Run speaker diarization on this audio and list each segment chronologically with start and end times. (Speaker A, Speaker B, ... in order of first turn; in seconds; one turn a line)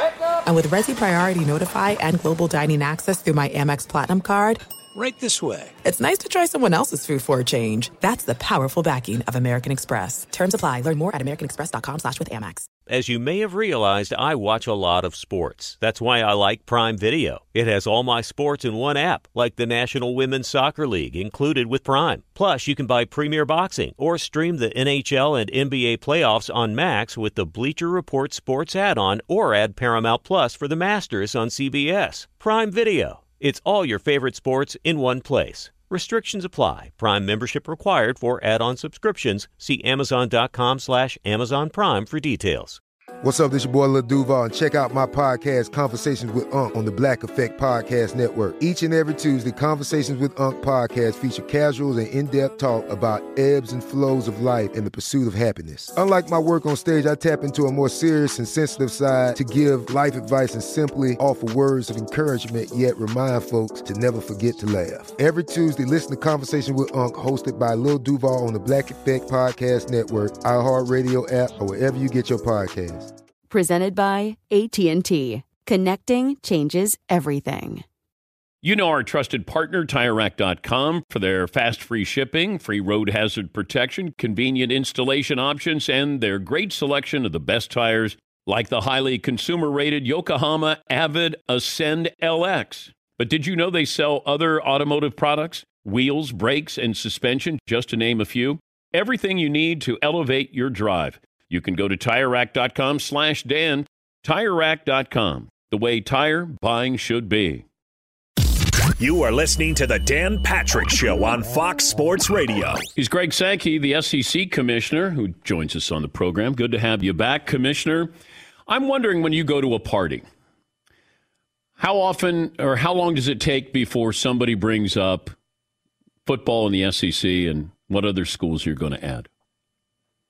Speaker A: 0.4-4.6
Speaker B: 4.9-5.7
Speaker A: 5.8-12.7
Speaker C: 12.9-42.8
Speaker D: 43.2-73.1
Speaker E: 73.5-77.8
Speaker F: 78.6-107.6
Speaker B: 109.0-112.8
Speaker F: 113.0-118.1
Speaker F: 118.7-120.2
Speaker F: 121.8-125.3
Speaker F: 126.2-129.3